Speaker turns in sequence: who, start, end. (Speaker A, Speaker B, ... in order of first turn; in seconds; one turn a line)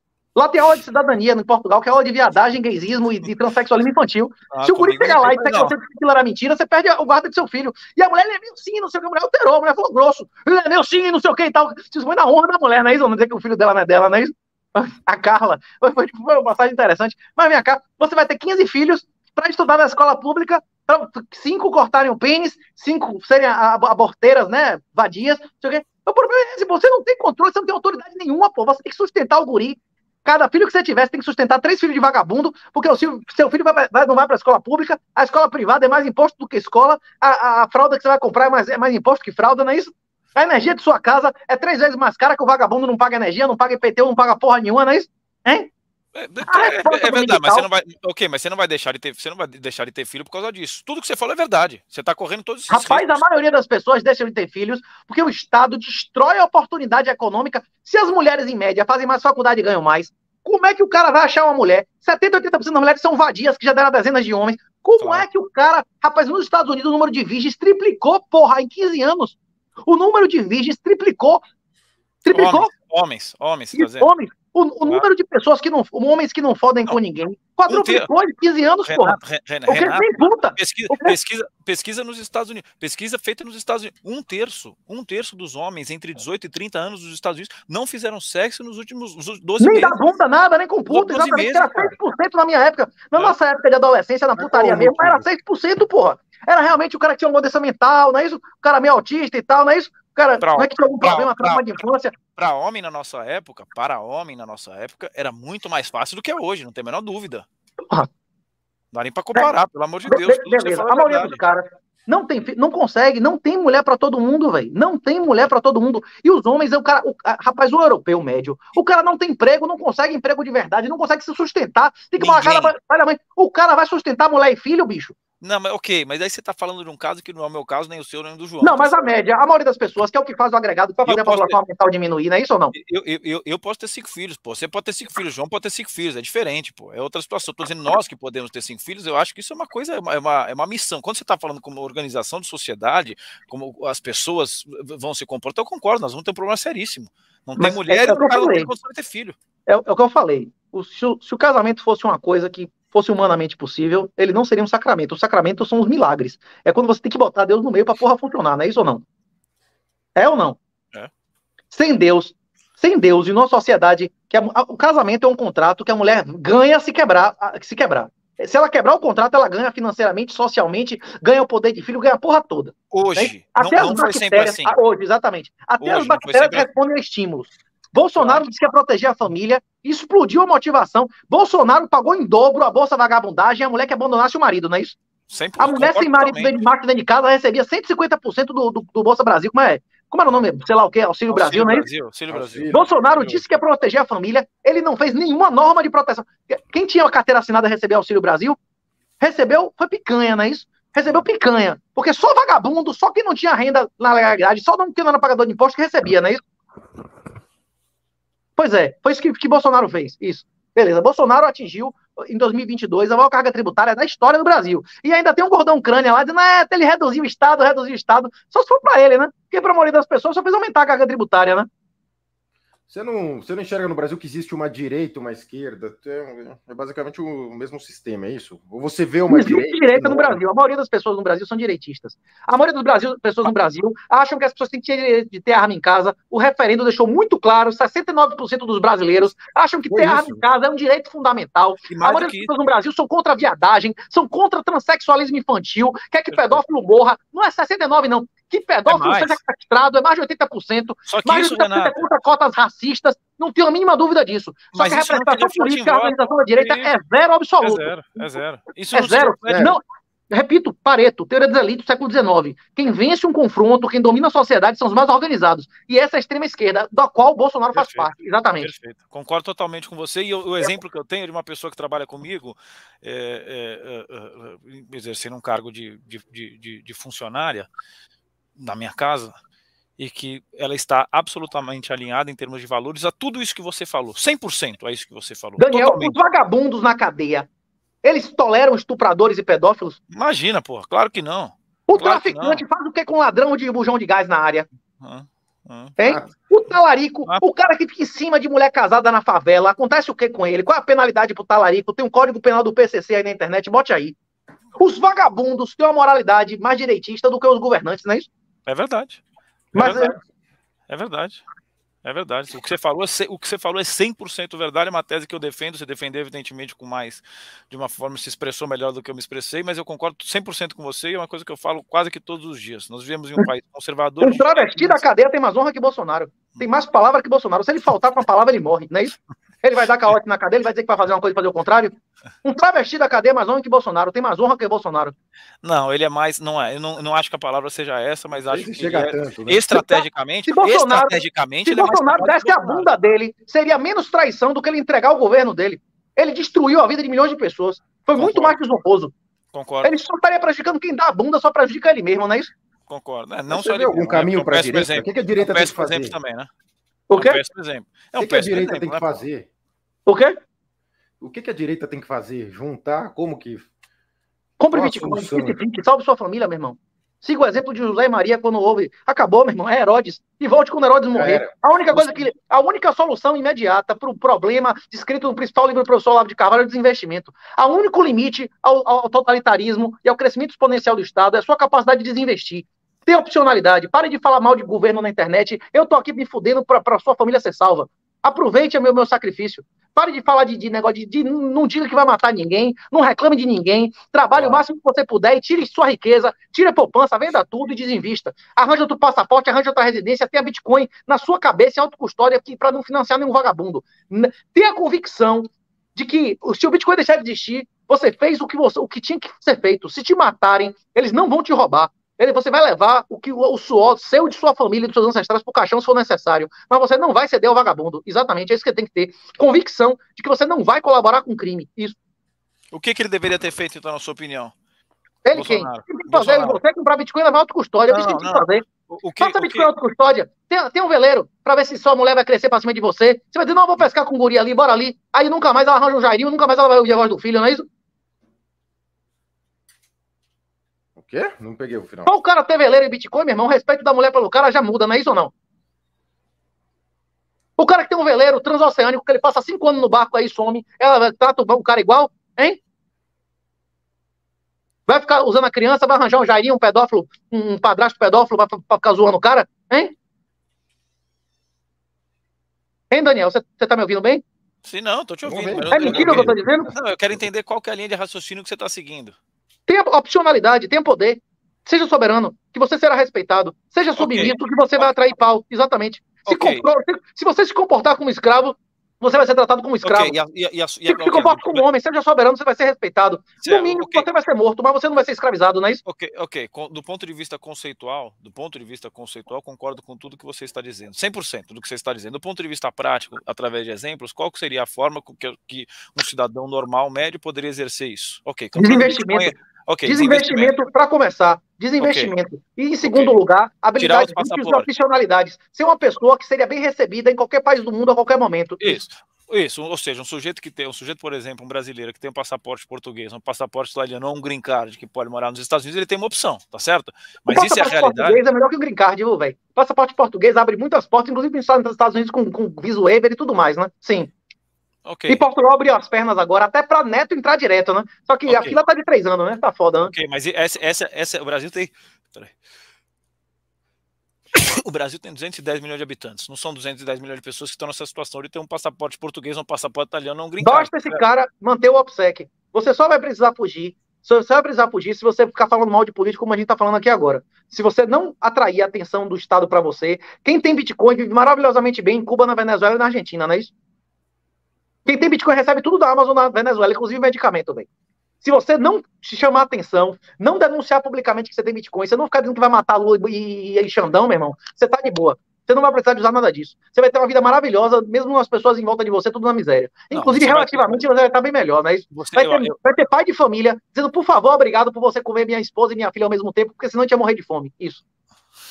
Speaker A: 0.3-45.7
Speaker B: 4.5-5.7
Speaker B: 46.1-53.2
Speaker A: 46.5-47.7
Speaker A: 52.7-71.4
Speaker A: 72.2-72.7
Speaker B: 72.3-74.1
Speaker A: 73.7-81.1
Speaker B: 77.7-78.1
Speaker B: 78.8-90.0
Speaker A: 89.6-102.2
Speaker B: 90.9-91.9
Speaker C: 94.4-95.2
Speaker B: 100.4-101.7
Speaker B: 102.3-107.5
Speaker B: 108.9-111.4
Speaker A: 110.0-125.1
Speaker B: 122.2-122.7
Speaker B: 125.4-129.1
Speaker A: 128.6-132.7
Speaker B: 131.1-131.6
Speaker B: 132.7-149.4
Speaker A: 147.6-148.7
Speaker A: 149.7-159.0
Speaker A: 160.2-160.6
Speaker A: 161.7-185.0
Speaker B: 172.9-174.8
Speaker B: 175.8-176.7
Speaker B: 178.2-178.4
Speaker B: 185.3-186.5
Speaker A: 185.6-191.9
Speaker B: 191.3-193.4
Speaker C: 192.3-192.8
Speaker A: 192.7-198.6
Speaker A: 199.2-206.4
Speaker A: 208.6-221.7
Speaker C: 222.9-230.4
Speaker A: 229.3-258.4
Speaker C: 239.9-240.4
Speaker B: 241.9-242.5
Speaker B: 246.3-246.6
Speaker B: 248.9-249.4
Speaker B: 251.1-252.0
Speaker B: 254.7-256.9
Speaker B: 257.6-259.7
Speaker A: 258.9-268.7
Speaker C: 259.5-259.8
Speaker B: 267.7-277.7
Speaker B: 278.6-279.3
Speaker B: 280.0-286.2
Speaker A: 285.6-287.5
Speaker A: 288.0-290.0
Speaker B: 290.1-292.6
Speaker A: 291.9-294.7
Speaker B: 295.0-296.3
Speaker A: 296.0-304.1
Speaker A: 304.8-308.3
Speaker B: 308.6-309.2
Speaker A: 309.7-310.1
Speaker B: 309.7-310.1
Speaker B: 310.9-311.4
Speaker B: 312.0-325.0
Speaker A: 324.2-335.1
Speaker B: 335.6-342.9
Speaker C: 338.5-339.7
Speaker A: 339.7-349.1
Speaker B: 348.1-348.6
Speaker B: 349.5-349.9
Speaker A: 349.8-352.5
Speaker B: 352.9-356.5
Speaker C: 353.5-356.1
Speaker A: 357.1-357.4
Speaker B: 357.1-359.2
Speaker C: 358.2-359.5
Speaker A: 360.1-360.4
Speaker C: 361.2-363.7
Speaker A: 364.6-422.0
Speaker C: 364.7-365.6
Speaker C: 371.1-372.2
Speaker C: 394.4-394.6
Speaker B: 422.7-424.5
Speaker A: 425.2-428.6
Speaker B: 425.3-426.6
Speaker B: 427.9-429.7
Speaker A: 429.2-437.6
Speaker C: 440.9-442.1
Speaker A: 442.1-445.3
Speaker A: 447.6-452.6
Speaker A: 454.9-459.9
Speaker A: 462.9-464.2
Speaker B: 464.6-469.1
Speaker C: 465.2-466.6
Speaker A: 465.7-466.7
Speaker A: 469.7-480.1
Speaker B: 474.0-474.9
Speaker B: 476.2-476.6
Speaker B: 479.8-481.6
Speaker A: 480.9-485.8
Speaker B: 483.4-484.1
Speaker B: 485.8-500.5
Speaker A: 498.5-508.8
Speaker B: 501.8-502.1
Speaker B: 502.8-503.2
Speaker B: 503.8-504.7
Speaker B: 508.6-518.2
Speaker A: 517.3-524.1
Speaker B: 524.8-525.2
Speaker A: 525.1-529.9
Speaker B: 528.3-528.6
Speaker B: 529.9-532.3
Speaker B: 534.3-541.0
Speaker A: 540.4-553.5
Speaker A: 554.9-557.7
Speaker A: 558.2-577.8
Speaker B: 569.9-570.9
Speaker B: 571.9-572.5